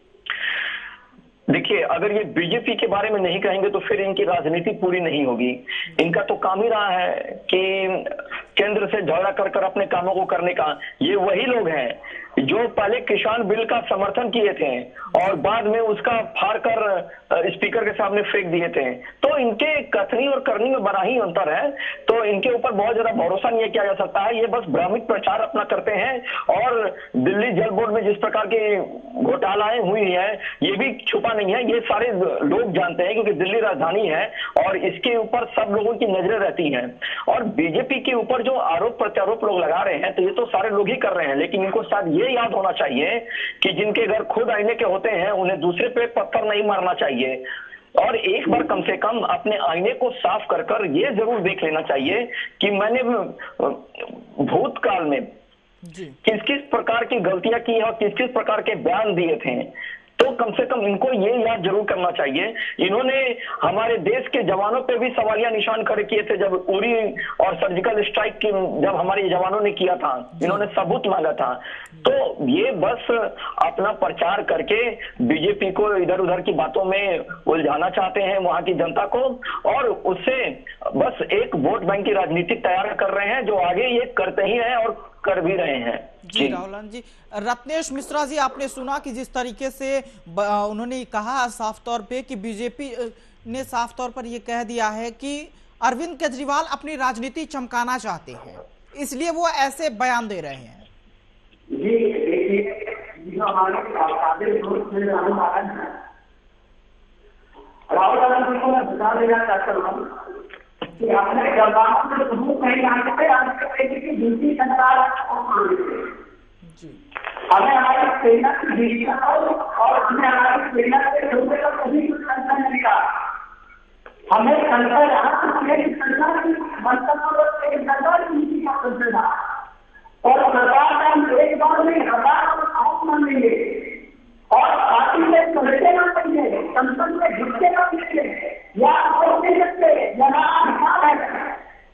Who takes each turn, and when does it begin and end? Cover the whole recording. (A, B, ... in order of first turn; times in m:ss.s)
0:01.5-0:47.4 A
0:15.1-0:15.4 B
0:48.0-0:55.2 A
0:55.8-0:56.2 B
0:56.2-0:59.7 A
1:00.2-1:26.6 A
1:10.3-1:10.7 B
1:26.2-1:40.9 B
1:41.7-1:45.9 C
1:47.9-1:50.0 C
1:51.0-1:56.1 C
1:56.6-1:57.0 B
1:57.5-2:03.0 C
2:04.3-2:09.3 C
2:10.2-2:21.6 C